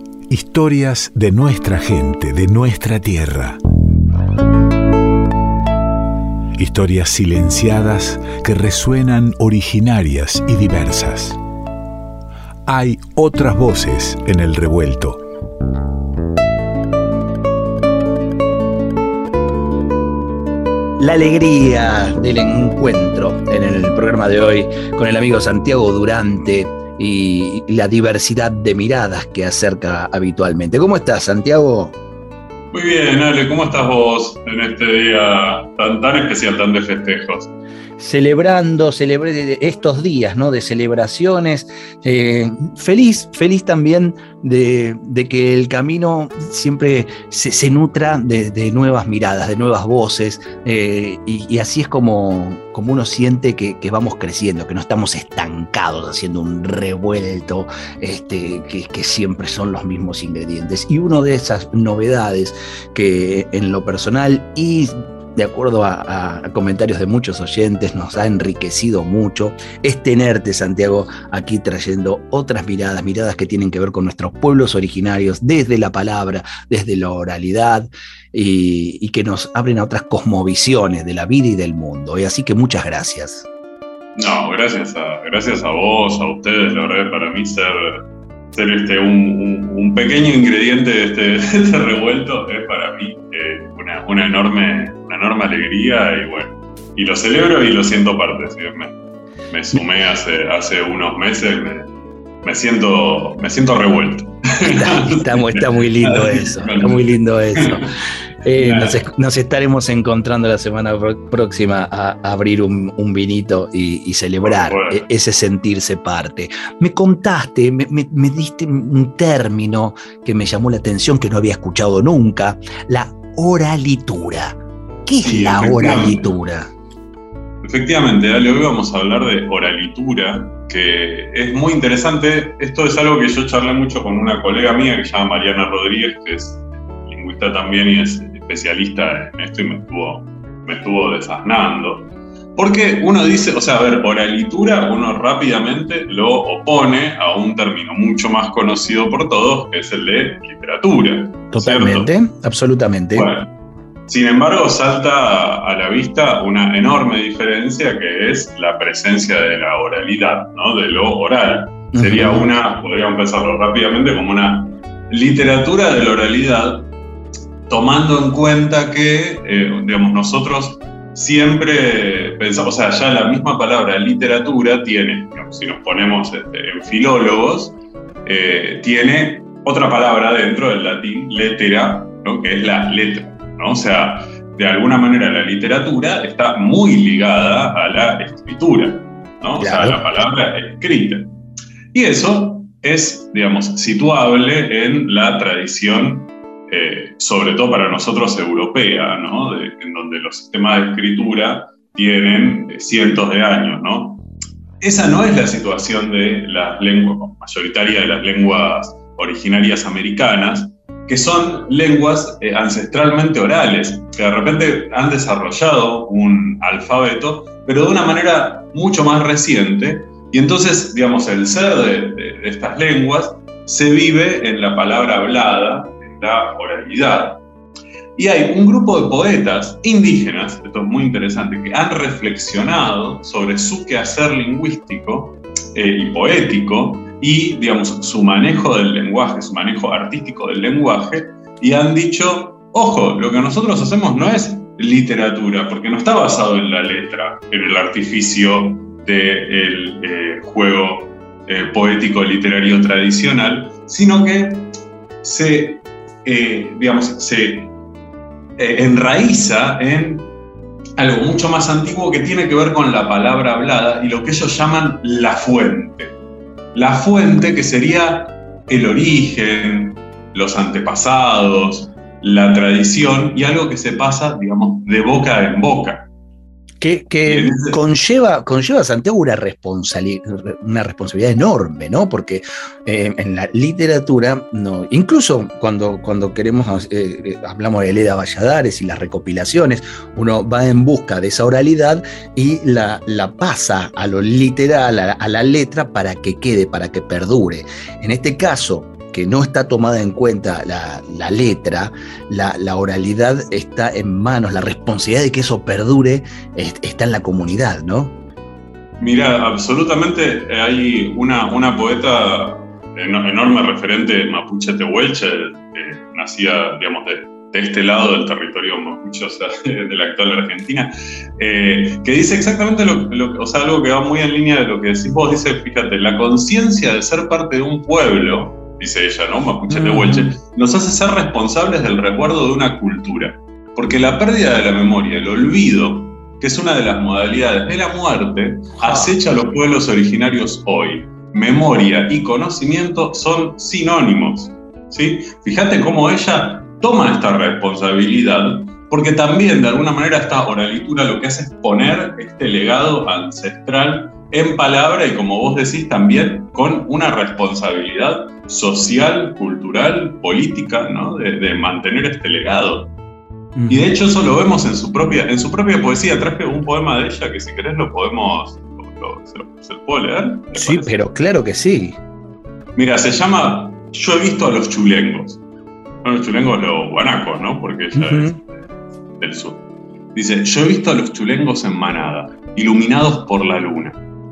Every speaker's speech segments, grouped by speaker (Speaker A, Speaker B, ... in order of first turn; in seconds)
Speaker A: 0.3-3.6, 6.5-11.4, 12.7-15.2
Speaker B: 21.0-31.9, 38.0-83.5, 104.6-126.7, 151.5-153.3, 161.9-162.5, 189.6-190.0, 276.8-308.1, 329.7-330.4, 338.8-339.1, 363.6-363.9, 370.5-372.0, 377.9-378.4
Speaker C: 32.7-37.5, 84.2-88.0, 88.5-98.9, 99.5-101.9, 102.4-107.9, 108.6-109.0, 114.4-115.1, 125.2-126.2, 127.6-152.1, 153.1-153.5, 154.1-166.9, 167.7-191.3, 191.9-204.2, 204.8-227.4, 228.2-254.7, 255.2-257.7, 258.6-260.3, 261.0-266.1, 266.7-276.1, 277.2-277.8, 309.0-362.9, 363.7-370.9, 372.8-375.4, 376.0-378.4, 379.2-379.6, 380.1-384.0